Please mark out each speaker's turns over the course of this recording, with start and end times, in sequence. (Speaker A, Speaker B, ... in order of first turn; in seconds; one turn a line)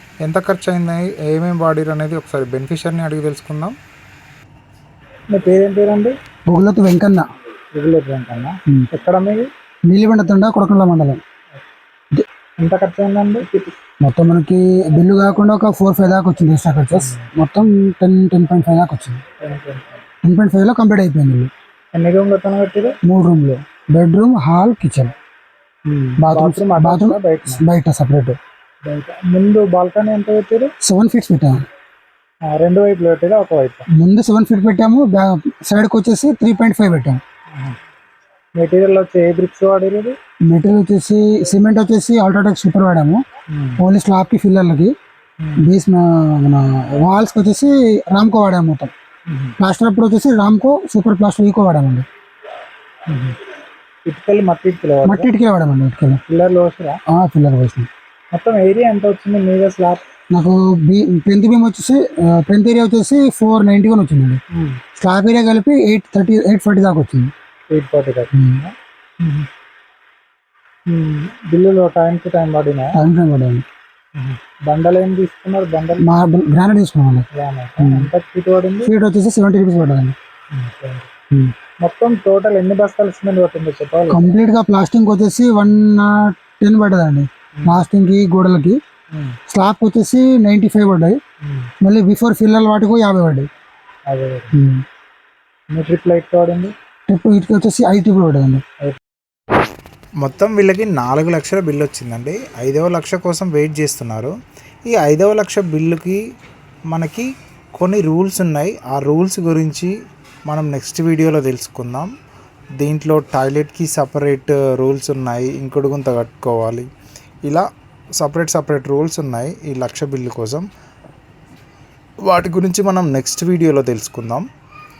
Speaker A: 0.2-3.8
Speaker B: 5.3-6.1
Speaker C: 6.5-7.3
Speaker B: 7.7-9.5
Speaker C: 9.9-11.2
Speaker B: 12.6-13.4
Speaker C: 14.0-19.2
Speaker B: 16.9-17.2
Speaker B: 19.4-20.0
Speaker C: 20.2-21.5
Speaker B: 21.9-22.9
Speaker C: 23.0-25.1
Speaker B: 25.9-27.6
Speaker C: 26.2-28.4
Speaker B: 28.8-30.7
Speaker C: 30.8-31.6
Speaker B: 32.4-33.8
Speaker C: 33.9-37.2
Speaker B: 38.5-40.1
Speaker C: 40.4-43.2
Speaker B: 43.5-43.8
Speaker C: 43.8-44.9
Speaker B: 45.4-45.7
Speaker C: 45.6-48.9
Speaker B: 49.3-49.5
Speaker C: 49.6-52.0
Speaker B: 53.1-53.4
Speaker B: 54.0-55.3
Speaker C: 55.0-56.2
Speaker B: 56.3-57.0
Speaker C: 57.1-57.9
Speaker B: 58.3-60.0
Speaker C: 60.3-64.4
Speaker B: 64.5-64.8
Speaker C: 65.0-67.3
Speaker B: 67.7-69.5
Speaker C: 68.3-68.6
Speaker B: 70.9-72.9
Speaker C: 72.9-73.6
Speaker B: 74.2-76.1
Speaker C: 76.0-77.2
Speaker B: 77.3-78.9
Speaker C: 77.8-78.1
Speaker C: 78.8-80.1
Speaker B: 80.5-81.1
Speaker B: 81.8-84.3
Speaker C: 84.1-88.8
Speaker B: 89.1-89.4
Speaker C: 89.5-91.2
Speaker B: 91.4-91.7
Speaker C: 91.8-93.5
Speaker B: 94.1-94.6
Speaker C: 94.5-94.8
Speaker B: 95.7-96.7
Speaker C: 97.1-98.6
Speaker A: 100.2-104.3
Speaker A: 104.9-106.2
Speaker A: 106.9-109.9
Speaker A: 110.5-112.1
Speaker A: 112.8-116.9
Speaker A: 118.2-120.7
Speaker A: 122.2-124.5